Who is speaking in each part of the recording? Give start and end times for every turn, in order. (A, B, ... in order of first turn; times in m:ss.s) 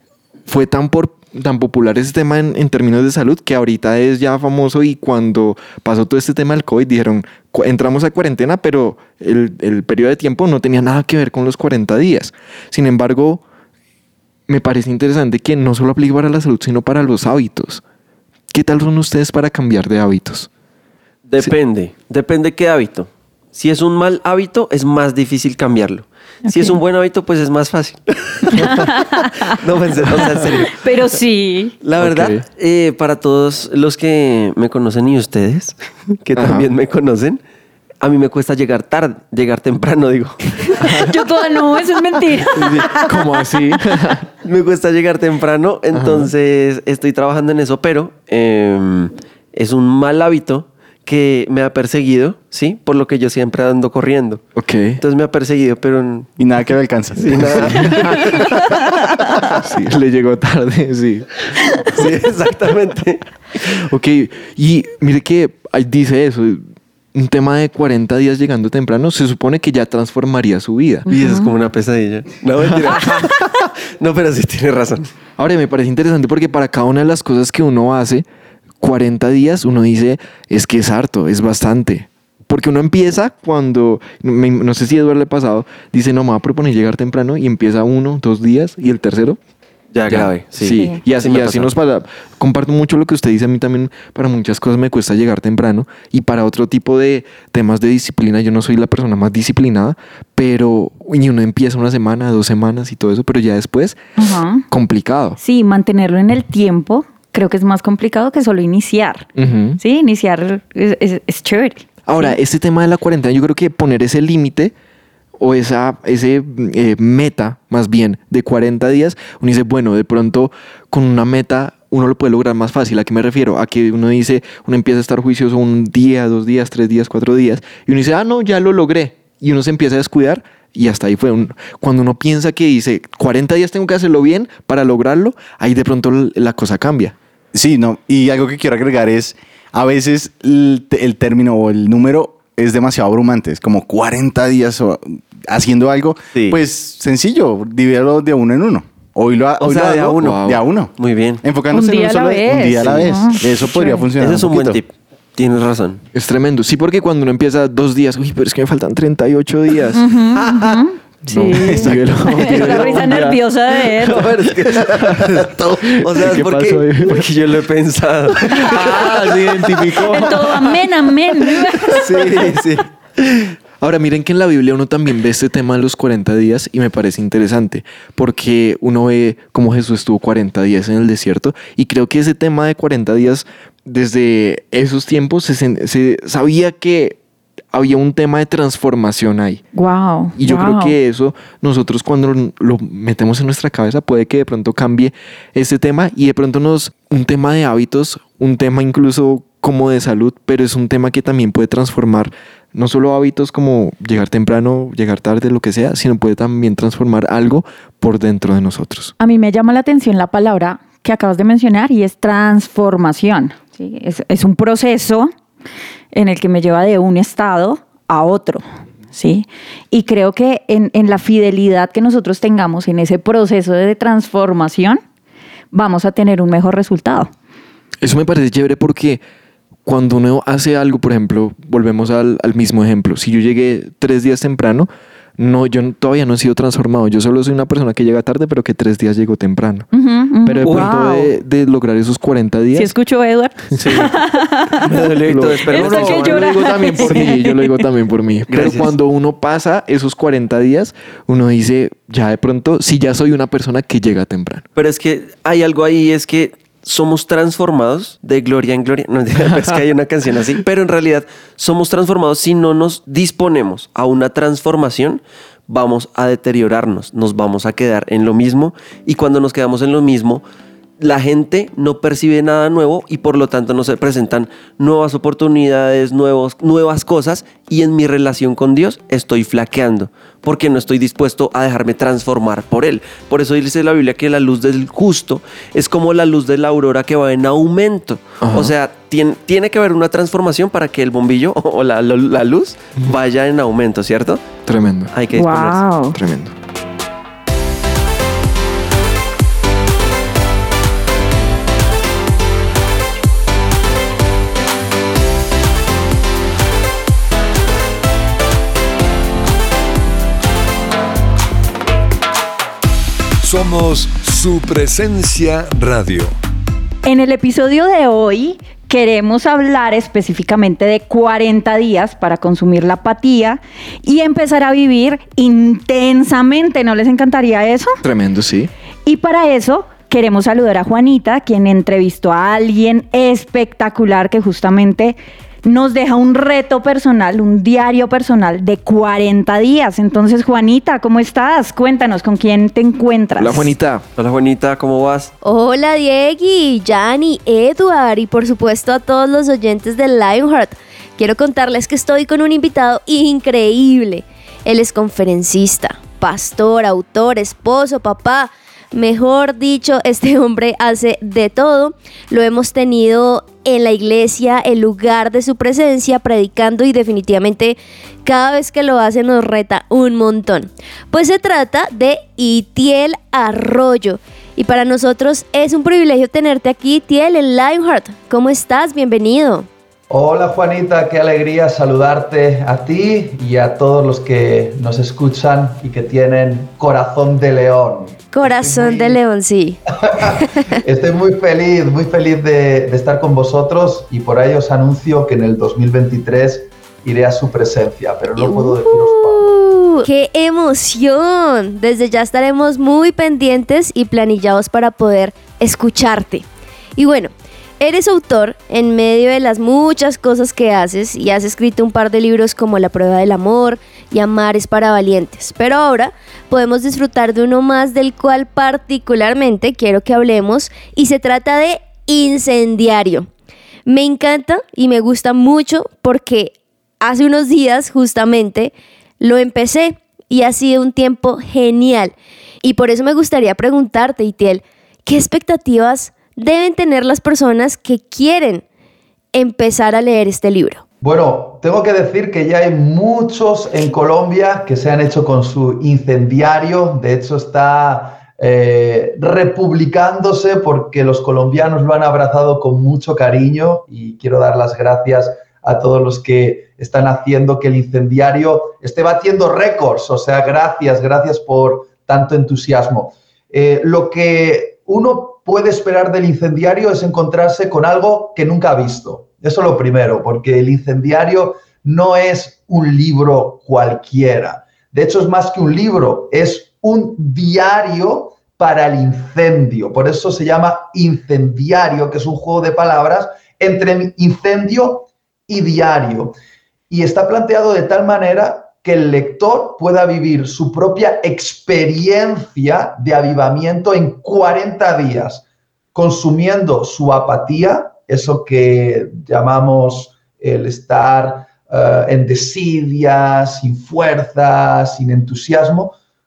0:00.5-0:13.4 A
0:14.5-0:17.8 A
0:18.5-0:20.5 A
0:21.3-0:28.8 B
0:26.5-0:26.8 C
0:28.5-0:29.6 C
0:29.5-0:30.8 B
0:30.1-0:30.5 A
0:30.2-0:31.7 C
0:31.8-0:37.4 B
0:32.0-0:32.4 A
0:36.3-0:36.6 A
0:38.0-0:41.0 B
0:40.7-0:42.6 C
0:40.8-0:41.1 A
0:42.4-0:43.1 B
0:42.5-0:44.3 A
0:44.4-0:54.4 B
0:45.9-0:46.3 A
0:54.6-0:55.0 A
0:55.0-0:56.3 B
0:56.4-0:58.4 D
0:57.2-0:58.4 B
0:57.6-0:58.4 A
0:59.6-1:02.0 A
1:01.9-1:03.7 B
1:03.7-1:06.6 A
1:07.1-1:11.1 A
1:11.1-1:11.5 C
1:11.1-1:15.1 B
1:12.8-1:13.1 A
1:15.4-1:18.2 A
1:18.8-1:29.4 A
1:29.9-1:31.7 B
1:30.1-1:44.0 A
1:30.7-1:31.0 C
1:44.2-1:44.6 C
1:44.7-1:45.4 A
1:45.4-1:52.4 C
1:49.4-1:49.8 A
1:52.0-1:54.7 A
1:55.4-2:17.1 A
2:17.5-2:34.8 D
2:29.6-2:31.4 B
2:30.2-2:30.6 A
2:31.7-2:34.1 C
2:34.2-2:36.0 B
2:36.1-2:40.0 A
2:39.9-2:44.3 C
2:41.3-2:43.4 A
2:41.5-2:42.0 D
2:42.6-2:43.0 B
2:44.0-2:49.8 B
2:44.7-2:47.3 A
2:48.4-2:50.8 A
2:48.5-2:49.0 C
2:49.9-2:52.0 C
2:51.6-3:07.2 A
2:51.9-2:52.8 B
3:07.7-3:09.6 A
3:09.7-3:11.0 C
3:10.4-3:29.1 A
3:29.2-3:35.3 C
3:36.1-3:45.0 C
3:45.7-3:47.3 C
3:48.0-3:49.2 A
3:49.8-3:59.9 A
3:59.9-4:01.3 C
4:00.4-4:02.9 A
4:00.6-4:00.9 B
4:02.7-4:04.9 C
4:03.8-4:04.1 B
4:03.8-4:04.1 A
4:04.8-4:07.3 B
4:05.2-4:14.6 A
4:05.7-4:07.9 C
4:08.5-4:08.9 B
4:14.8-4:30.4 B
4:19.4-4:19.8 A
4:31.0-4:54.4 B
4:48.4-4:48.7 A
4:54.6-4:55.1 A
4:55.1-4:55.8 B
4:55.3-4:56.2 C
4:56.0-4:56.5 A
5:13.4-5:16.3 E
5:17.0-5:28.0 C
5:28.0-5:28.7 A
5:29.0-5:43.7 C
5:43.4-5:44.0 A
5:44.2-5:45.3 B
5:45.4-6:19.7 F
6:20.1-6:29.2 G
6:28.3-6:29.8 F
6:30.0-6:39.5 G
6:38.4-6:46.4 F
6:47.0-7:03.3 F
7:03.8-7:18.6 F
7:19.3-7:20.8 F
7:21.0-8:06.3 G
8:06.9-8:25.9 G